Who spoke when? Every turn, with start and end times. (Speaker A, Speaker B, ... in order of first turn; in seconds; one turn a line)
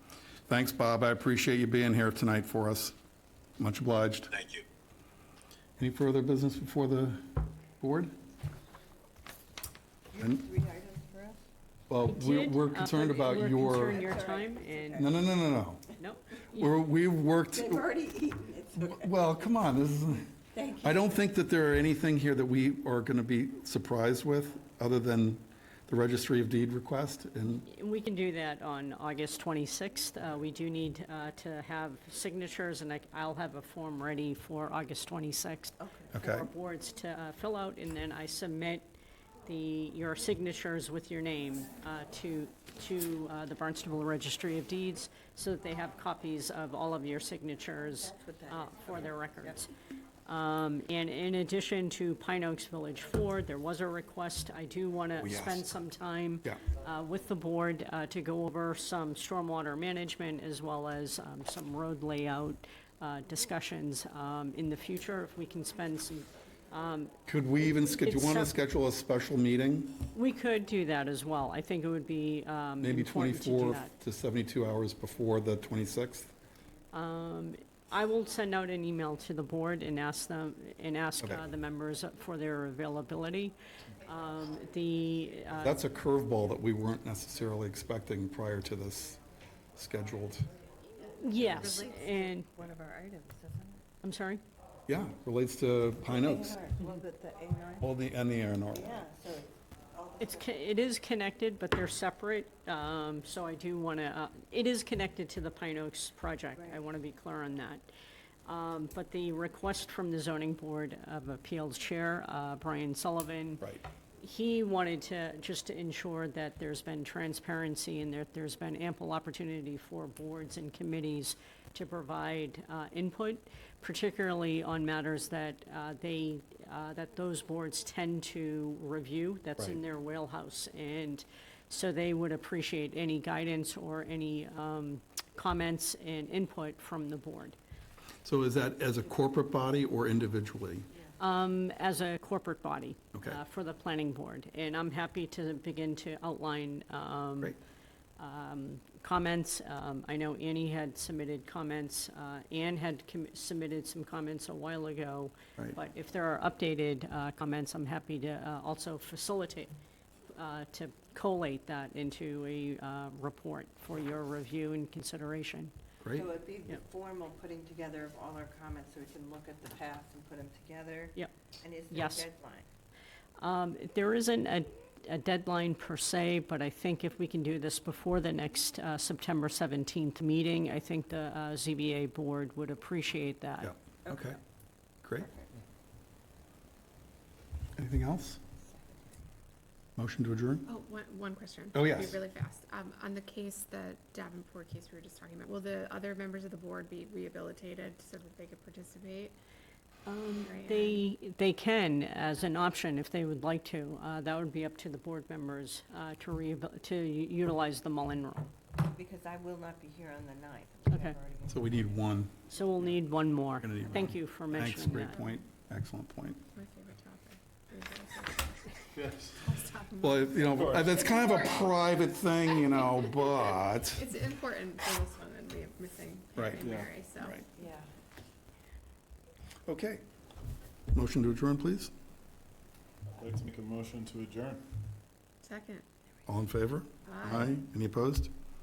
Speaker A: 0.5-3.0
Speaker A: 3.6-4.6
Speaker A: 5.8-8.1
Speaker B: 10.1-11.4
Speaker A: 11.9-14.0
Speaker C: 12.0-15.2
Speaker B: 13.6-15.2
Speaker A: 15.0-15.9
Speaker C: 16.0-16.8
Speaker A: 16.5-17.9
Speaker B: 17.5-19.1
Speaker A: 18.8-27.7
Speaker B: 20.5-21.2
Speaker C: 27.7-38.9
Speaker B: 35.8-36.1
Speaker A: 36.1-36.5
Speaker C: 39.5-49.7
Speaker B: 48.0-49.5
Speaker C: 50.3-67.2
Speaker A: 55.2-55.7
Speaker A: 67.3-70.0
Speaker C: 67.9-68.5
Speaker C: 70.1-73.9
Speaker A: 72.8-76.3
Speaker C: 76.9-85.8
Speaker A: 85.6-89.2
Speaker A: 89.8-90.5
Speaker C: 91.2-92.5
Speaker B: 91.4-93.9
Speaker C: 94.0-94.4
Speaker A: 94.9-96.6
Speaker B: 96.0-97.9
Speaker A: 97.8-99.1
Speaker B: 98.7-100.5
Speaker C: 100.2-107.9
Speaker B: 106.6-106.8
Speaker C: 108.5-137.6
Speaker A: 138.2-140.9
Speaker C: 141.2-147.6
Speaker A: 143.2-143.4
Speaker C: 148.2-159.7
Speaker C: 160.3-165.7
Speaker A: 166.0-166.3
Speaker B: 166.1-172.7
Speaker C: 171.9-172.3
Speaker C: 173.4-183.7
Speaker A: 183.6-184.4
Speaker B: 184.1-184.3
Speaker A: 185.0-185.3
Speaker B: 185.2-185.5
Speaker A: 187.8-188.4
Speaker A: 190.0-190.7
Speaker D: 190.7-199.3
Speaker A: 191.7-192.2
Speaker C: 200.1-208.5
Speaker D: 200.3-201.1
Speaker B: 208.8-211.9
Speaker C: 210.9-211.2
Speaker A: 211.5-212.4
Speaker C: 212.5-215.2
Speaker A: 213.6-216.4
Speaker D: 216.5-218.8
Speaker E: 218.9-219.4
Speaker D: 219.4-221.7
Speaker A: 220.0-224.0
Speaker E: 220.4-221.4
Speaker D: 223.9-227.6
Speaker A: 226.4-226.7
Speaker E: 226.6-226.9
Speaker A: 227.2-227.4
Speaker B: 227.6-227.9
Speaker A: 229.7-230.0
Speaker A: 230.9-231.9
Speaker E: 233.2-234.7
Speaker D: 235.4-235.8
Speaker A: 236.3-238.3
Speaker D: 237.1-237.6